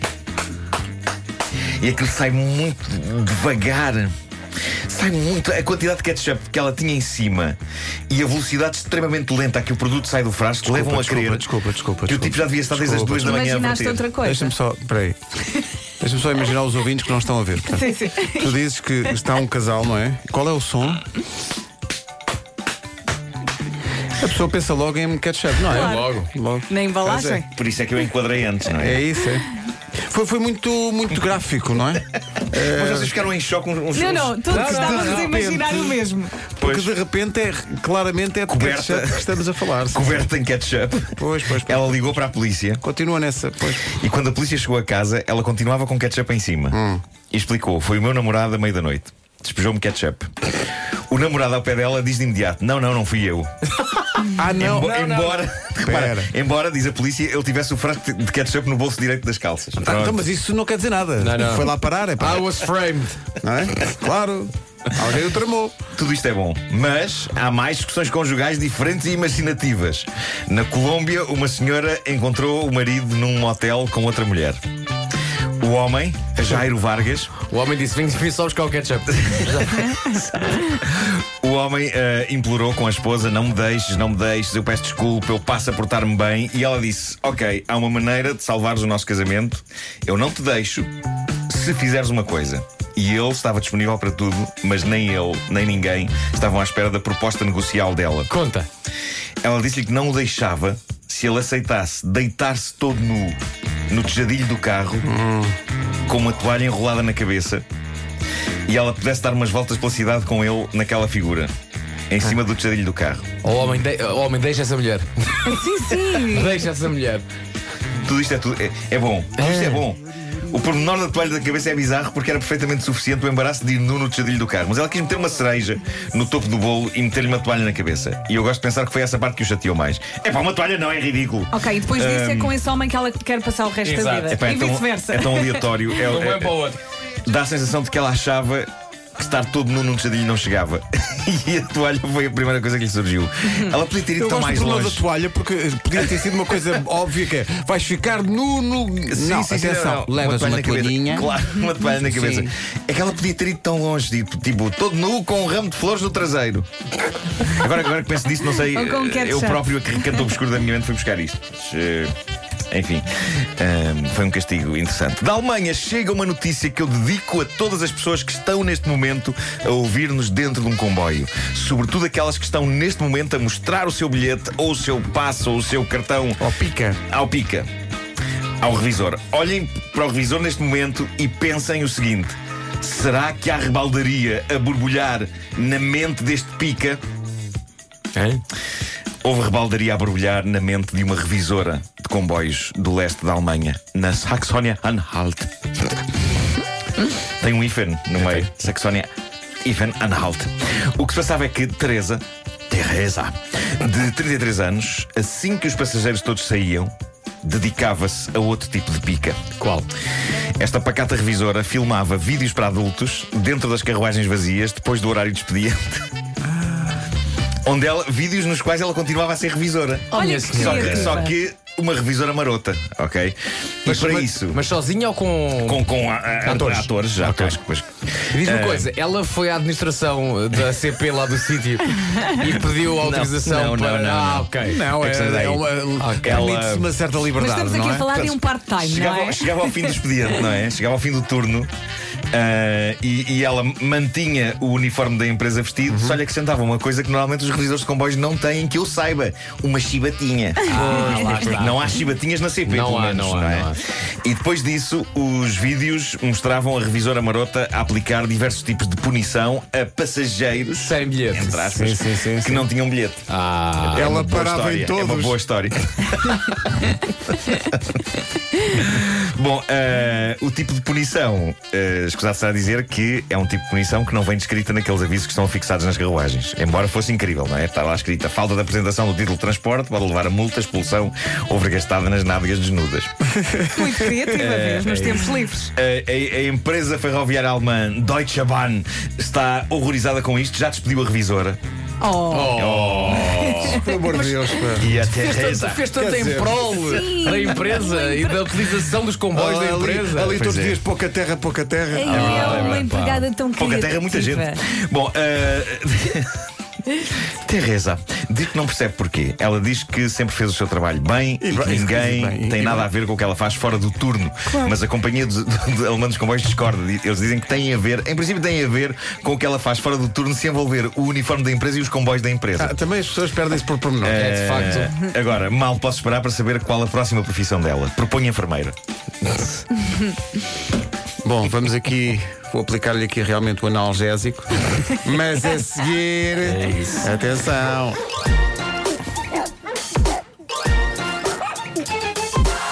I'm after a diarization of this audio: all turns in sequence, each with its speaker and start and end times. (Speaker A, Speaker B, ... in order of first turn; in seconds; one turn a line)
Speaker A: 1.8-4.1
Speaker A: 4.9-7.6
Speaker A: 8.1-11.5
Speaker B: 10.6-13.4
Speaker A: 12.1-14.0
Speaker C: 13.2-14.5
Speaker B: 14.2-15.2
Speaker B: 16.0-21.0
Speaker C: 17.7-18.5
Speaker B: 24.1-27.4
Speaker C: 25.7-26.1
Speaker D: 25.7-26.3
Speaker C: 26.7-27.4
Speaker A: 27.2-29.1
Speaker B: 28.8-29.5
Speaker B: 30.1-33.1
Speaker A: 32.5-35.1
Speaker C: 33.9-36.4
Speaker D: 34.5-35.5
Speaker B: 34.5-35.9
Speaker B: 36.6-40.3
Speaker A: 36.6-36.9
Speaker A: 38.5-42.8
Speaker B: 41.1-42.0
Speaker B: 42.8-43.9
Speaker A: 43.9-46.8
Speaker B: 46.7-47.0
Speaker A: 47.3-50.6
Speaker A: 51.1-53.5
Speaker B: 54.3-55.0
Speaker A: 54.5-60.2
Speaker D: 54.6-55.4
Speaker B: 55.8-56.3
Speaker B: 59.8-62.5
Speaker D: 61.2-63.2
Speaker B: 63.4-65.8
Speaker A: 65.9-74.6
Speaker A: 75.6-77.3
Speaker D: 76.4-76.7
Speaker D: 77.3-80.0
Speaker A: 79.9-90.9
Speaker A: 91.5-98.3
Speaker D: 98.3-98.7
Speaker A: 99.4-103.4
Speaker A: 103.9-105.1
Speaker B: 105.0-105.5
Speaker A: 106.1-107.6
Speaker A: 108.7-111.5
Speaker A: 112.1-113.3
Speaker D: 113.4-115.7
Speaker C: 115.4-116.5
Speaker D: 116.2-117.2
Speaker A: 118.0-132.6
Speaker D: 119.4-119.9
Speaker C: 131.5-135.6
Speaker D: 133.8-134.4
Speaker A: 134.3-136.7
Speaker D: 136.0-136.8
Speaker A: 137.2-145.1
Speaker B: 144.2-151.3
Speaker A: 149.1-156.7
Speaker B: 152.1-152.5
Speaker A: 157.4-162.1
Speaker C: 158.6-159.6
Speaker A: 162.7-176.4
Speaker B: 176.4-177.0
Speaker A: 177.1-177.7
Speaker A: 178.6-187.0
Speaker D: 188.1-188.4
Speaker A: 189.2-195.5
Speaker A: 197.4-199.1
Speaker D: 198.2-198.5
Speaker A: 199.6-209.4
Speaker D: 209.6-209.9
Speaker A: 210.6-216.0
Speaker A: 217.6-224.6
Speaker C: 220.1-221.3
Speaker D: 220.1-221.2
Speaker B: 223.8-224.3
Speaker D: 224.5-225.9
Speaker A: 225.6-228.9
Speaker D: 226.4-227.6
Speaker B: 226.5-226.8
Speaker D: 228.3-234.9
Speaker A: 232.4-236.9
Speaker B: 234.6-238.1
Speaker D: 236.0-236.4
Speaker C: 237.3-239.9
Speaker A: 238.1-241.7
Speaker A: 242.3-263.2
Speaker B: 245.9-246.2
Speaker D: 250.7-252.0
Speaker D: 252.6-253.8
Speaker D: 260.8-261.6
Speaker B: 261.6-262.7
Speaker D: 263.3-264.1
Speaker A: 263.8-268.1
Speaker B: 263.9-265.4
Speaker A: 268.6-283.1
Speaker B: 283.4-283.9
Speaker C: 283.7-285.7
Speaker A: 284.3-291.6
Speaker D: 284.8-285.3
Speaker C: 292.0-294.8
Speaker D: 292.3-293.8
Speaker A: 292.5-293.4
Speaker B: 293.5-294.9
Speaker A: 294.8-295.9
Speaker D: 295.0-300.4
Speaker B: 295.9-297.5
Speaker C: 296.8-298.7
Speaker B: 299.3-302.4
Speaker A: 300.2-300.8
Speaker C: 301.9-304.6
Speaker D: 302.0-303.3
Speaker A: 302.1-302.9
Speaker A: 303.6-306.3
Speaker A: 307.4-322.7
Speaker B: 311.4-312.9
Speaker B: 322.6-324.2
Speaker A: 324.0-328.7
Speaker D: 324.1-324.9
Speaker B: 331.2-338.0
Speaker D: 336.4-337.1